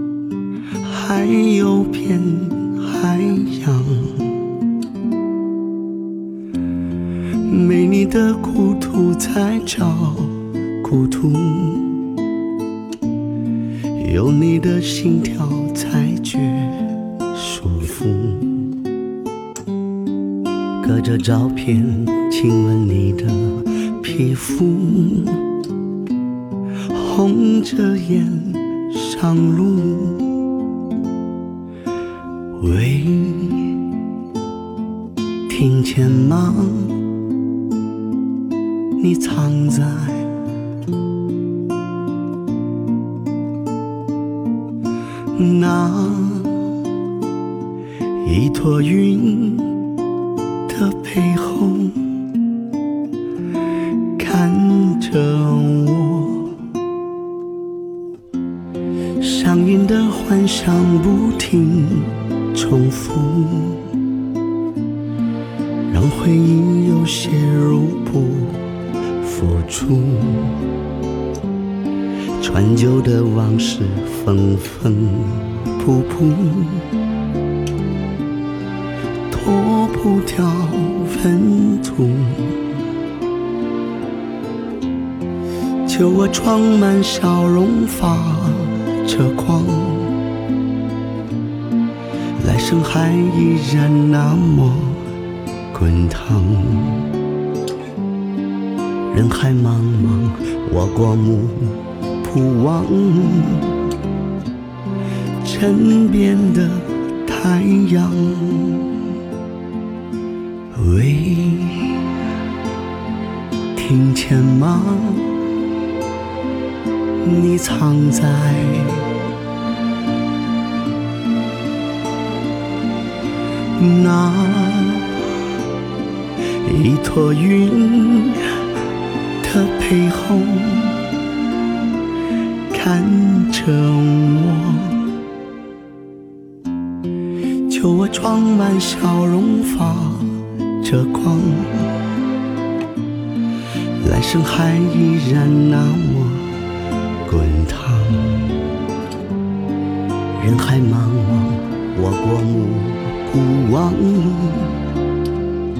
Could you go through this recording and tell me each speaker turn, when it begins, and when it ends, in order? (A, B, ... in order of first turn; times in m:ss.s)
0:00.8-0:04.4 A
0:07.4-0:12.1 A
0:14.0-0:18.8 A
0:20.8-0:25.5 A
0:26.8-0:30.4 A
0:32.5-0:33.9 A
0:35.5-0:37.1 A
0:39.0-0:40.3 A
0:45.3-0:46.7 A
0:48.2-0:49.8 A
0:50.7-0:52.2 A
0:54.2-0:56.5 A
0:59.2-1:03.9 A
1:05.9-1:10.7 A
1:12.4-1:16.9 A
1:19.3-1:22.7 A
1:25.8-1:30.2 A
1:32.4-1:35.1 A
1:35.7-1:37.1 A
1:39.1-1:43.8 A
1:45.4-1:48.9 A
1:50.7-1:52.0 A
1:53.7-1:55.4 A
1:57.2-1:59.2 A
2:03.8-2:05.2 A
2:06.6-2:08.6 A
2:09.4-2:11.1 A
2:12.7-2:15.0 A
2:17.7-2:22.1 A
2:24.0-2:26.6 A
2:27.2-2:28.6 A
2:30.4-2:34.8 A